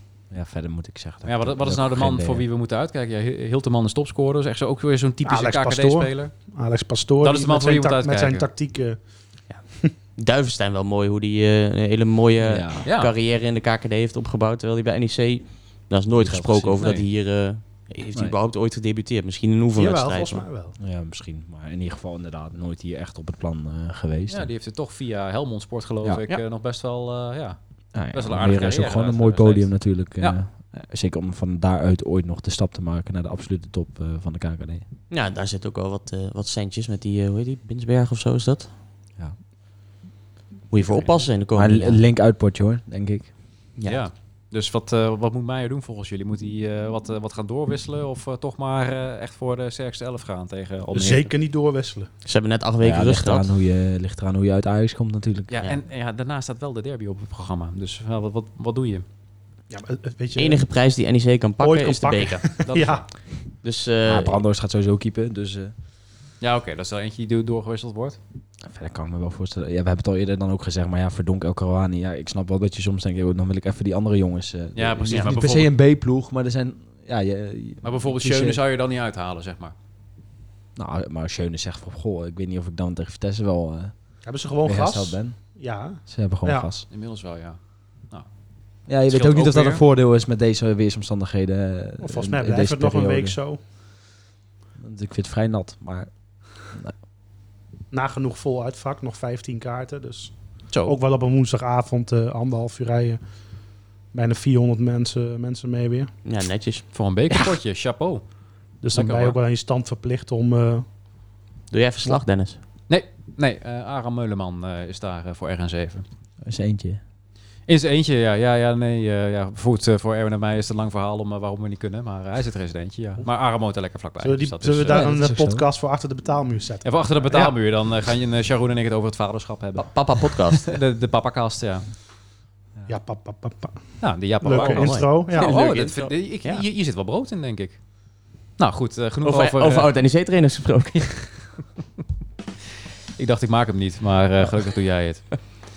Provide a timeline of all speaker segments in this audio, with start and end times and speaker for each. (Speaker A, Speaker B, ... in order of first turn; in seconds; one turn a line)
Speaker A: 0.3-2.4
Speaker B: 1.2-6.3
Speaker C: 5.2-9.0
Speaker B: 7.2-8.5
Speaker D: 10.2-20.4
Speaker A: 12.4-12.8
Speaker B: 12.8-13.1
Speaker A: 16.1-16.8
Speaker B: 16.8-17.1
Speaker C: 19.8-20.8
Speaker A: 20.8-24.5
Speaker B: 24.3-30.4
Speaker A: 27.9-34.9
Speaker D: 35.1-38.7
Speaker D: 40.7-42.0
Speaker B: 40.8-41.2
Speaker A: 41.5-43.3
Speaker D: 43.8-44.0
Speaker B: 43.8-51.3
Speaker C: 50.9-52.1
Speaker D: 52.2-53.5
Speaker A: 52.8-55.5
Speaker B: 55.5-59.0
Speaker C: 59.7-60.6
Speaker D: 60.4-62.7
Speaker C: 61.6-63.0
Speaker B: 62.6-63.0
Speaker D: 63.6-64.4
Speaker A: 64.0-65.7
Speaker B: 66.4-68.2
Speaker A: 68.6-78.6
Speaker B: 74.7-75.7
Speaker B: 77.8-79.7
Speaker A: 80.8-83.9
Speaker C: 84.2-86.7
Speaker A: 84.6-85.4
Speaker A: 86.1-86.8
Speaker B: 86.9-87.6
Speaker A: 88.9-93.4
Speaker B: 89.1-89.8
Speaker C: 92.0-93.6
Speaker A: 94.8-96.9
Speaker C: 97.9-100.3
Speaker B: 100.7-101.0
Speaker C: 100.8-103.2
Speaker C: 104.1-106.1
Speaker D: 106.2-106.8
Speaker B: 106.9-108.2
Speaker C: 108.8-110.8
Speaker B: 108.9-109.4
Speaker D: 111.7-112.6
Speaker B: 112.9-116.0
Speaker A: 116.4-117.0
Speaker B: 117.7-125.1
Speaker C: 124.2-127.5
Speaker A: 124.9-125.7
Speaker B: 126.8-129.9
Speaker D: 129.8-130.7
Speaker B: 130.6-131.8
Speaker C: 132.9-133.8
Speaker B: 134.0-137.8
Speaker C: 134.4-135.5
Speaker D: 134.4-136.6
Speaker B: 138.6-139.9
Speaker D: 139.2-141.3
Speaker B: 143.2-145.3